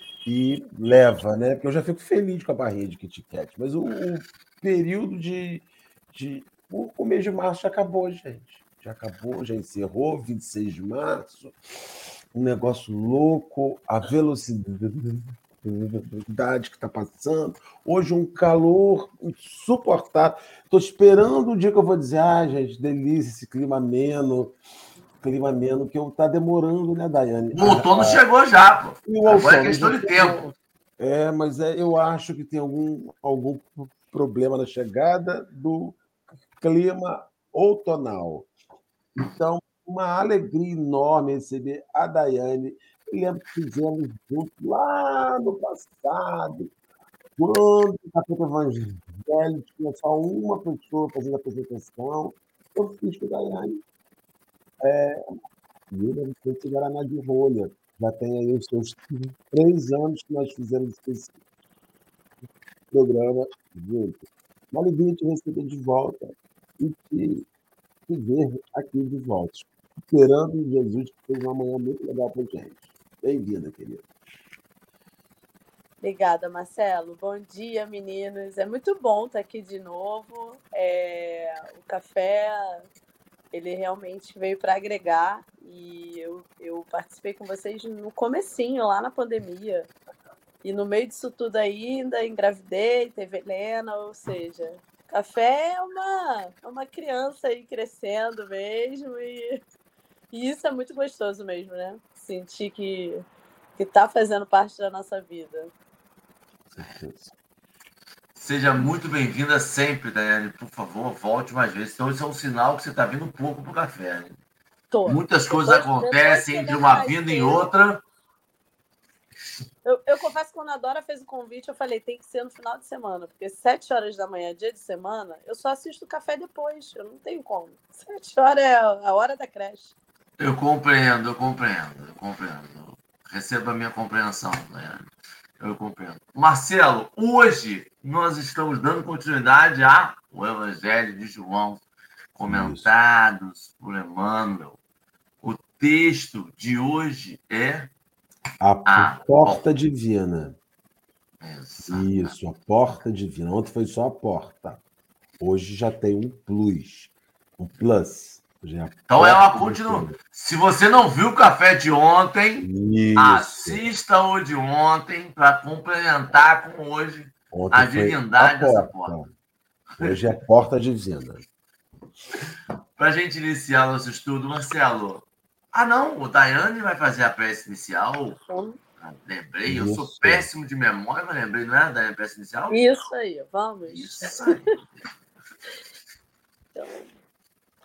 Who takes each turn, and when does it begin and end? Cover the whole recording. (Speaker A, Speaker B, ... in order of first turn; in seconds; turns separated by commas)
Speaker A: 0.2-11.5, Speaker A: 12.3-24.5, Speaker A: 25.2-28.2, Speaker B: 27.5-30.4, Speaker A: 29.1-36.0, Speaker A: 36.6-38.5, Speaker A: 39.2-46.7, Speaker A: 47.4-53.8, Speaker A: 54.8-55.2, Speaker A: 55.9-61.3, Speaker A: 62.9-64.2, Speaker A: 64.7-67.5, Speaker A: 68.1-74.1, Speaker C: 76.0-82.8, Speaker C: 83.5-89.9, Speaker C: 90.6-99.6, Speaker C: 100.3-103.2, Speaker C: 103.8-105.7, Speaker A: 106.7-107.3, Speaker B: 108.3-114.4, Speaker C: 114.9-117.7, Speaker B: 115.0-118.0, Speaker C: 119.8-129.9, Speaker B: 130.4-135.1, Speaker B: 135.6-141.8, Speaker B: 142.3-144.8, Speaker A: 142.5-142.8, Speaker B: 145.4-147.9, Speaker A: 148.6-150.6, Speaker B: 148.9-149.6, Speaker B: 151.4-152.3, Speaker A: 151.8-154.8, Speaker A: 155.4-160.2, Speaker B: 159.1-169.2, Speaker A: 162.6-163.8, Speaker A: 167.5-169.3, Speaker B: 169.9-170.3, Speaker A: 170.0-171.4, Speaker B: 173.0-178.4, Speaker C: 178.4-178.8, Speaker B: 179.0-182.8, Speaker A: 179.7-180.5, Speaker C: 182.7-184.5, Speaker B: 183.9-184.8, Speaker C: 186.7-187.1